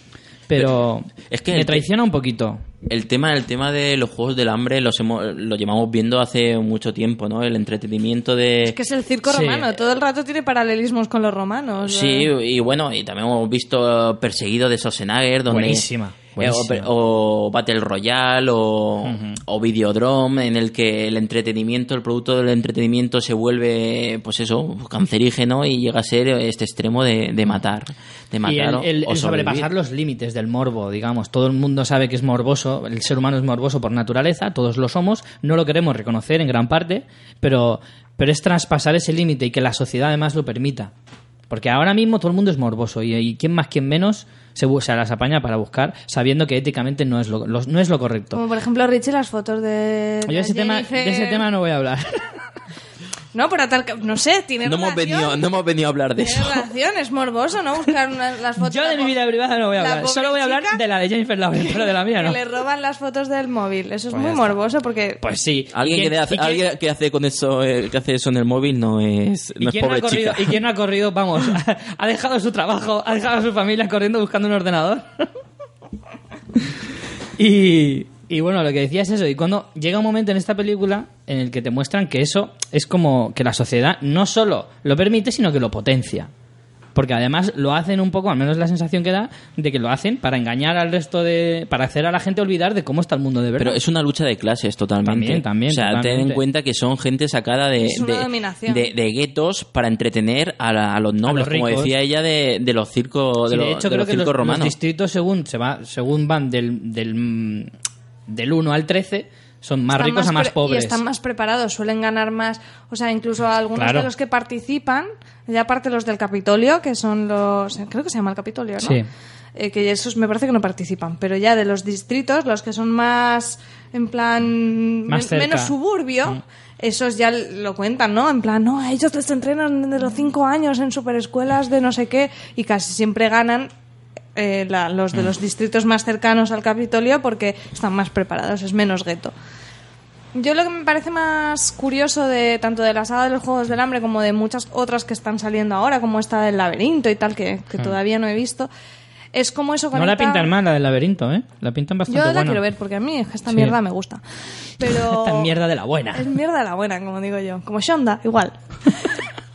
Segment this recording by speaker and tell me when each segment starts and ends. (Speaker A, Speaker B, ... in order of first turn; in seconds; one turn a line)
Speaker A: 0.5-2.6
Speaker B: 1.3-1.8
Speaker B: 2.9-8.8
Speaker C: 8.7-12.3
Speaker A: 9.2-9.7
Speaker B: 11.8-29.7
Speaker A: 15.5-16.9
Speaker A: 19.1-19.4
Speaker A: 28.4-40.9
Speaker A: 41.5-48.4
Speaker C: 48.3-51.5
Speaker A: 50.3-52.4
Speaker C: 53.3-55.4
Speaker B: 54.6-56.6
Speaker C: 56.2-59.1
Speaker A: 58.6-62.4
Speaker C: 59.8-60.8
Speaker C: 61.7-65.2
Speaker A: 64.1-64.5
Speaker A: 65.2-66.6
Speaker B: 65.7-70.6
Speaker A: 69.6-75.3
Speaker A: 77.4-86.3
Speaker A: 87.0-93.8
Speaker B: 93.6-104.8
Speaker A: 95.0-96.4
Speaker C: 97.8-98.9
Speaker A: 101.3-101.9
Speaker A: 103.5-107.7
Speaker A: 108.3-111.0
Speaker C: 110.0-119.0
Speaker A: 113.8-114.1
Speaker A: 118.8-119.1
Speaker C: 119.6-133.7
Speaker A: 125.1-125.7
Speaker C: 134.4-139.3
Speaker C: 140.3-148.7
Speaker C: 149.3-150.5
Speaker A: 149.9-152.6
Speaker C: 152.1-154.2
Speaker A: 153.5-153.8
Speaker C: 154.8-155.5
Speaker A: 154.8-156.3
Speaker C: 156.1-159.1